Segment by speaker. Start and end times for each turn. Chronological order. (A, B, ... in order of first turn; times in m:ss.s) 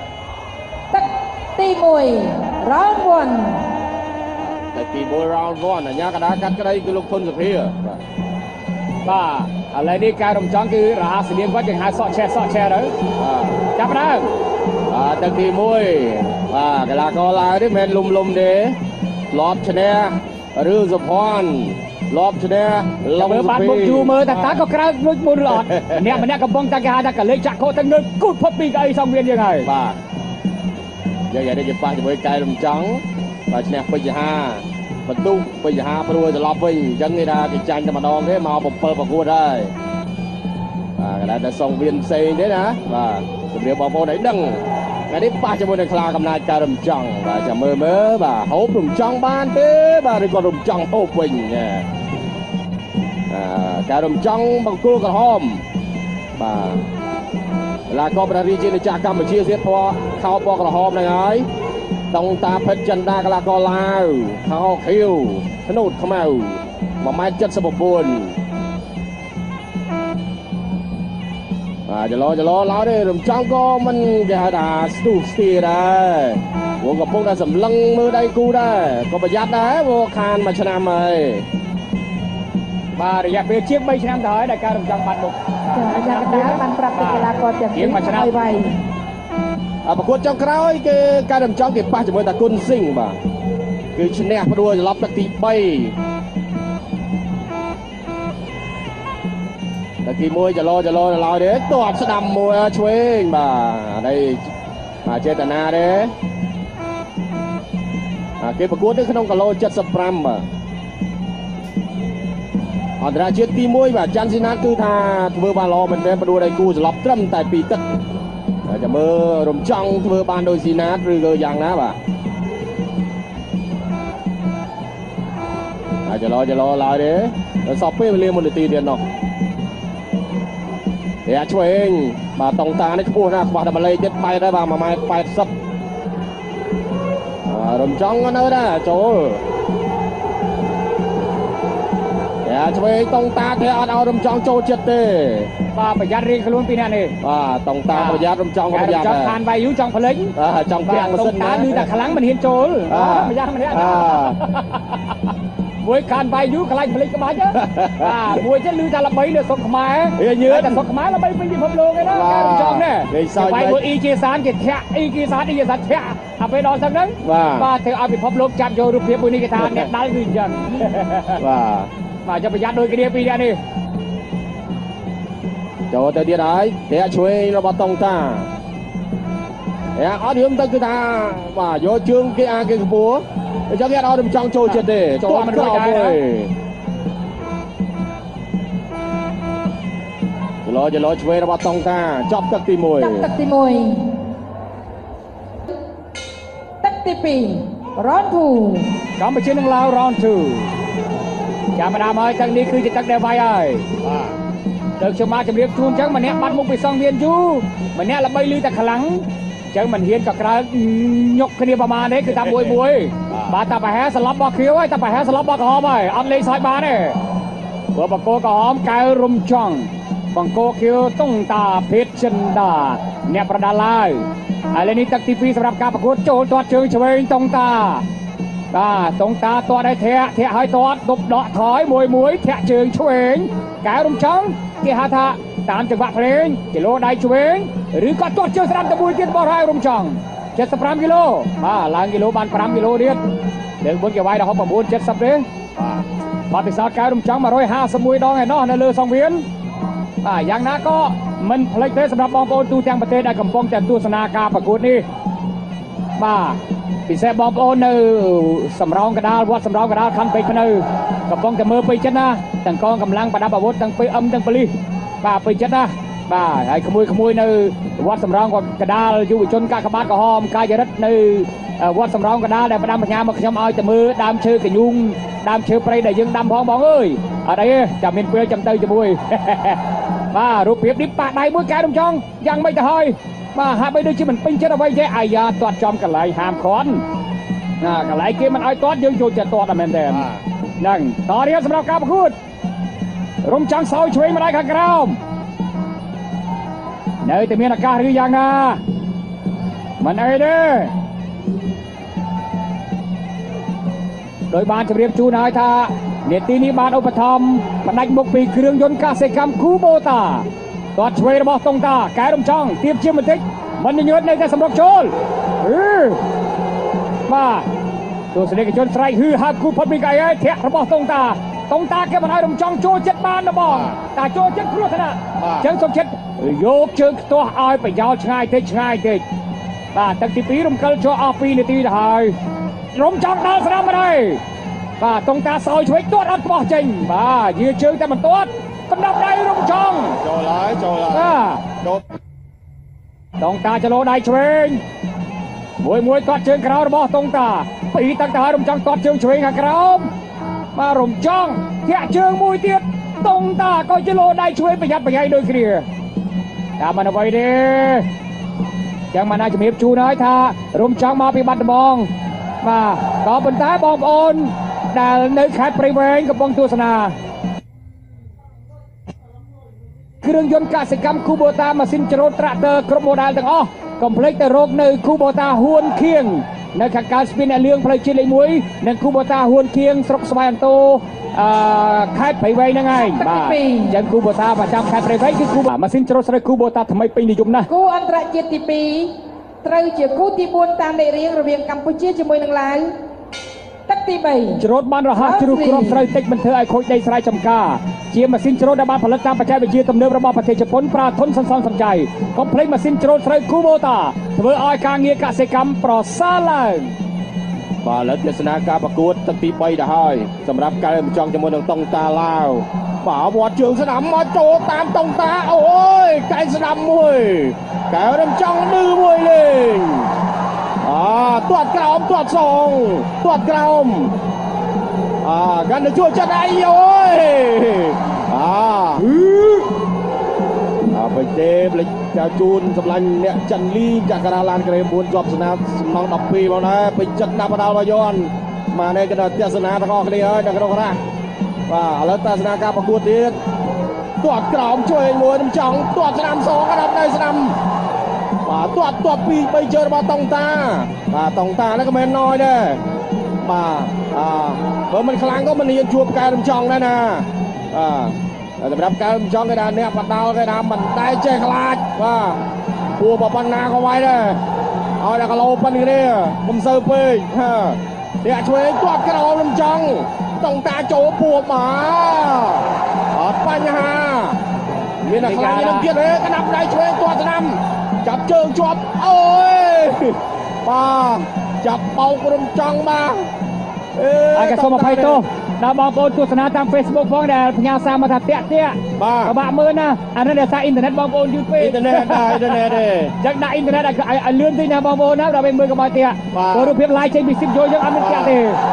0:00.9-0:03.6 A
0:04.6-0:08.0 B
0:09.0-0:12.9 C
0:13.2-0:13.6 B
0:13.8-0:14.3 C
0:14.9-0:18.8 B
0:19.3-0:24.6 B
0:23.2-0:29.7 C
0:25.5-0:26.2 B
0:29.6-0:30.0 B
0:31.3-0:39.7 B
0:41.0-0:51.9 B
0:53.3-0:55.6 B
0:56.4-0:56.8 B
0:57.9-1:01.5 B
1:02.1-1:08.4 B
1:11.9-1:21.5 B
1:23.0-1:28.4 C
1:25.7-1:28.7 A
1:29.8-1:33.2 B
1:34.0-1:36.0 B
1:40.0-1:44.5 B
1:45.0-1:46.1 B
1:48.4-1:50.4 B
1:53.0-1:57.8 B
1:58.7-2:02.0 B
2:06.1-2:09.0 B
2:11.3-2:15.5 B
2:17.5-2:19.4 B
2:22.4-2:25.5 B
2:25.7-2:27.2 C
2:27.2-2:29.4 B
2:27.9-2:35.2 C
2:30.4-2:31.9 B
2:32.9-2:34.4 B
2:35.8-2:51.4 C
2:37.6-2:38.4 B
2:40.2-2:40.9 B
2:42.0-2:43.8 B
2:47.2-2:47.7 B
2:49.6-2:49.9 B
2:51.4-2:51.9 B
2:52.2-2:53.6 C
2:55.9-2:58.5 B
3:00.0-3:06.5 B
3:04.7-3:06.2 C
3:10.6-3:13.3 B
3:13.0-3:14.0 A
3:16.8-3:19.0 A
3:19.2-3:20.7 C
3:21.8-3:23.9 C
3:24.0-3:24.4 B
3:25.0-3:37.2 C
3:32.3-3:32.8 B
3:33.3-3:33.6 B
3:37.9-3:48.0 C
3:48.7-4:03.2 C
4:03.8-4:05.5 C
4:05.8-4:06.0 B
4:06.5-4:09.5 C
4:10.2-4:15.0 C
4:16.2-4:47.0 C
4:47.8-4:50.3 C
4:50.1-4:50.4 B
4:50.8-4:52.4 C
4:53.4-4:55.2 C
4:57.2-4:58.8 C
5:00.0-5:00.9 C
5:04.5-5:16.2 C
5:17.3-5:17.7 C
5:18.3-5:29.2 C
5:23.7-5:24.0 B
5:25.4-5:25.7 B
5:29.9-5:32.4 C
5:32.9-5:34.4 C
5:35.0-5:40.2 C
5:39.7-5:42.0 B
5:41.1-5:41.7 C
5:43.4-5:44.8 C
5:45.8-5:50.1 C
5:50.7-5:55.9 C
5:56.8-5:58.1 C
5:59.1-6:02.1 C
6:02.6-6:07.1 C
6:10.2-6:27.7 C
6:23.1-6:24.0 A
6:27.7-6:32.9 A
6:33.9-6:34.6 A
6:34.6-6:46.9 C
6:35.2-6:36.1 A
6:47.8-7:00.1 B
7:00.8-7:04.1 B
7:05.2-7:09.2 B
7:10.9-7:21.0 B
7:21.7-7:23.4 B
7:24.2-7:27.6 B
7:28.4-7:32.8 B
7:33.4-7:42.4 B
7:43.0-7:44.4 B
7:45.0-7:54.4 B
7:55.0-8:03.3 B
7:55.1-7:55.9 C
8:04.0-8:05.2 B
8:04.3-8:18.6 C
8:09.0-8:09.4 B
8:11.6-8:13.1 B
8:16.3-8:16.8 B
8:18.0-8:18.4 B